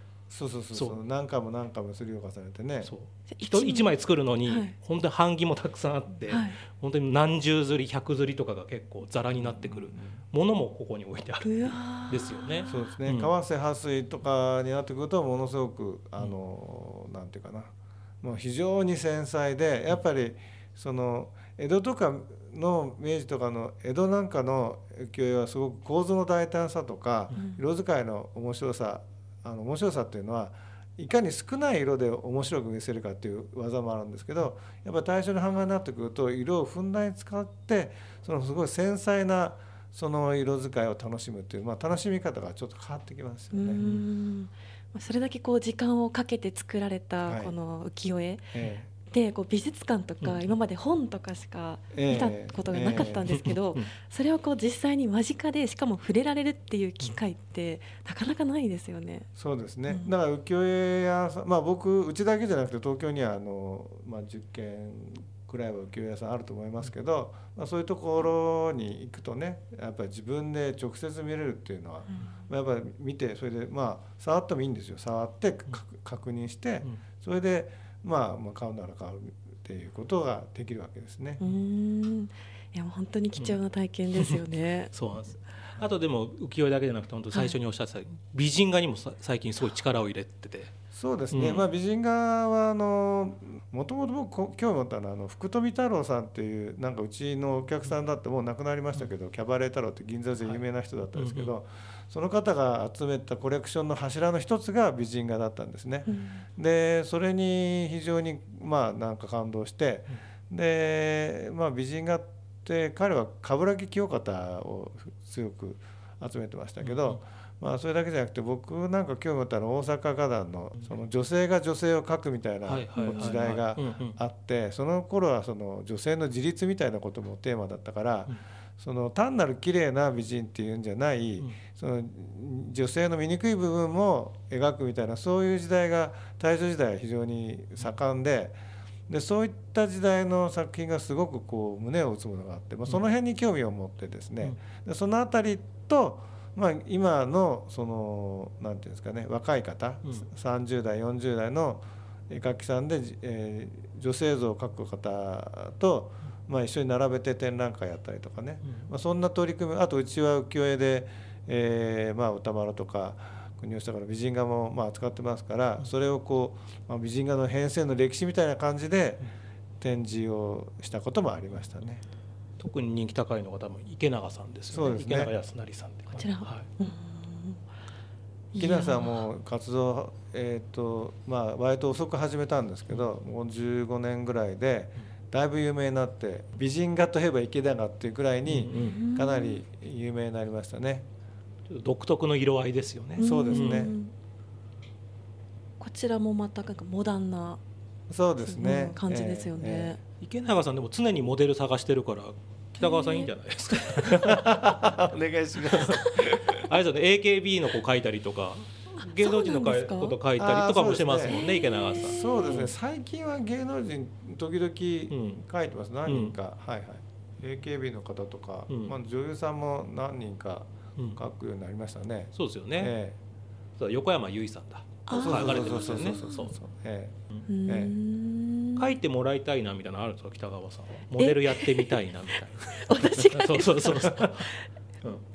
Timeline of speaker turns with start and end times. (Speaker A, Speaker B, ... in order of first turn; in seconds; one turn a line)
Speaker A: 0.3-2.9
Speaker B: 2.9-13.3
Speaker C: 3.3-3.9
Speaker C: 4.5-4.8
Speaker C: 6.3-6.6
Speaker A: 9.4-10.2
Speaker C: 11.4-12.9
Speaker A: 12.7-43.8
Speaker C: 27.3-27.6
Speaker C: 43.5-48.5
Speaker A: 47.3-47.6
Speaker A: 48.5-48.9
Speaker C: 49.1-59.3
Speaker B: 50.2-50.5
Speaker A: 51.9-53.3
Speaker B: 53.3-53.9
Speaker A: 59.4-81.4
Speaker C: 59.9-60.1
Speaker C: 72.1-72.4
Speaker C: 81.4-84.9
Speaker B: 84.9-90.7
Speaker A: 90.9-138.6
Speaker B: 91.3-91.7
Speaker B: 101.2-101.5
Speaker C: 106.1-106.4
Speaker B: 116.8-117.2
Speaker B: 122.7-124.2
Speaker C: 123.0-123.5
Speaker A: 139.1-172.0
Speaker B: 158.6-158.9
Speaker B: 172.6-176.7
Speaker A: 174.7-175.3
Speaker C: 176.2-177.6
Speaker A: 178.5-191.1
Speaker C: 178.6-179.2
Speaker B: 188.4-189.0
Speaker C: 188.7-189.6
Speaker B: 191.7-193.9
Speaker C: 193.2-194.1
Speaker A: 193.2-193.9
Speaker C: 195.8-197.6
Speaker A: 198.1-200.0
Speaker C: 198.4-200.0
Speaker B: 200.2-204.8
Speaker C: 202.8-203.3
Speaker A: 204.2-206.7
Speaker B: 205.7-212.7
Speaker C: 209.0-210.2
Speaker A: 210.4-211.4
Speaker C: 211.2-212.6
Speaker A: 212.0-223.2
Speaker B: 215.1-215.4
Speaker B: 216.1-216.4
Speaker B: 218.7-219.0
Speaker B: 221.0-221.2
Speaker B: 222.4-223.0
Speaker B: 223.8-226.5
Speaker C: 225.1-226.5
Speaker A: 225.1-227.9
Speaker C: 227.5-229.0
Speaker B: 228.8-234.5
Speaker C: 231.2-231.9
Speaker C: 232.8-234.6